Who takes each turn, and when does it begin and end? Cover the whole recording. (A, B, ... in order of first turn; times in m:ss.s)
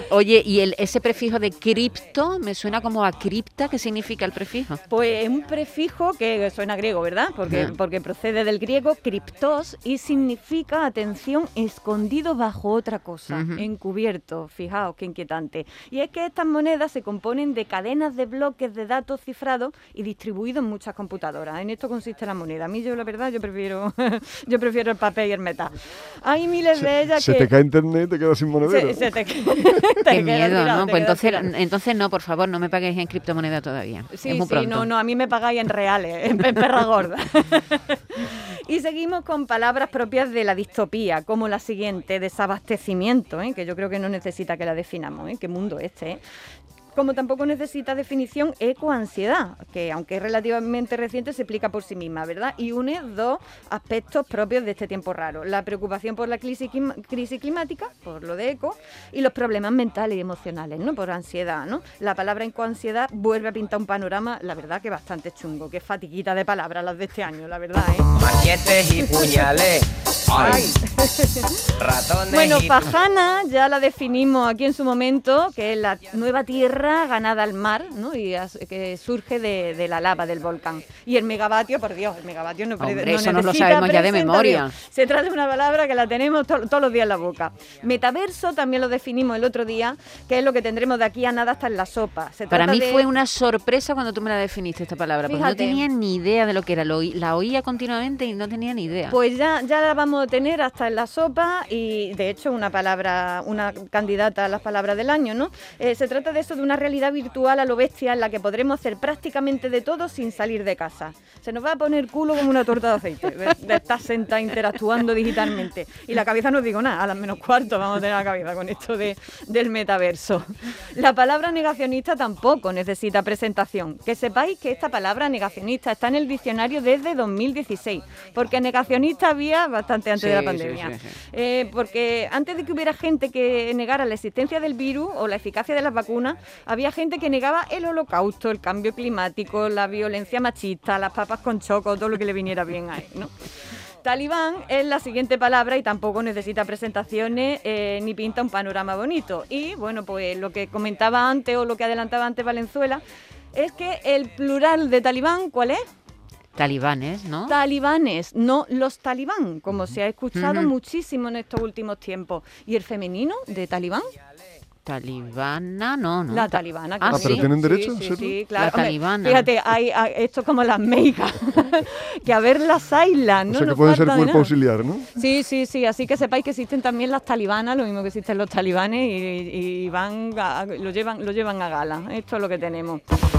0:00.1-0:04.8 A
0:04.9-0:27.5 B
0:13.3-0:13.6 A
0:26.8-0:29.1 C
0:28.6-0:31.5 B
0:30.0-0:34.9 A
0:34.1-0:46.2 B
0:47.0-1:08.1 B
1:08.2-1:10.7 D
1:09.0-1:09.4 B
1:10.3-1:11.7 B
1:11.8-1:12.9 D
1:12.3-1:33.1 B
1:22.8-1:24.8 A
1:32.5-1:39.2 A
1:35.3-1:35.8 B
1:39.1-2:23.3 B
2:10.2-2:11.1 A
2:24.0-2:33.0 B
2:33.5-2:35.8 B
2:36.6-2:37.6 A
2:37.5-2:44.1 B
2:40.4-2:40.7 A
2:44.9-2:47.5 A
2:46.3-2:54.5 B
2:47.1-2:48.4 C
2:48.6-2:49.5 A
2:53.5-2:55.1 C
2:55.2-3:03.0 B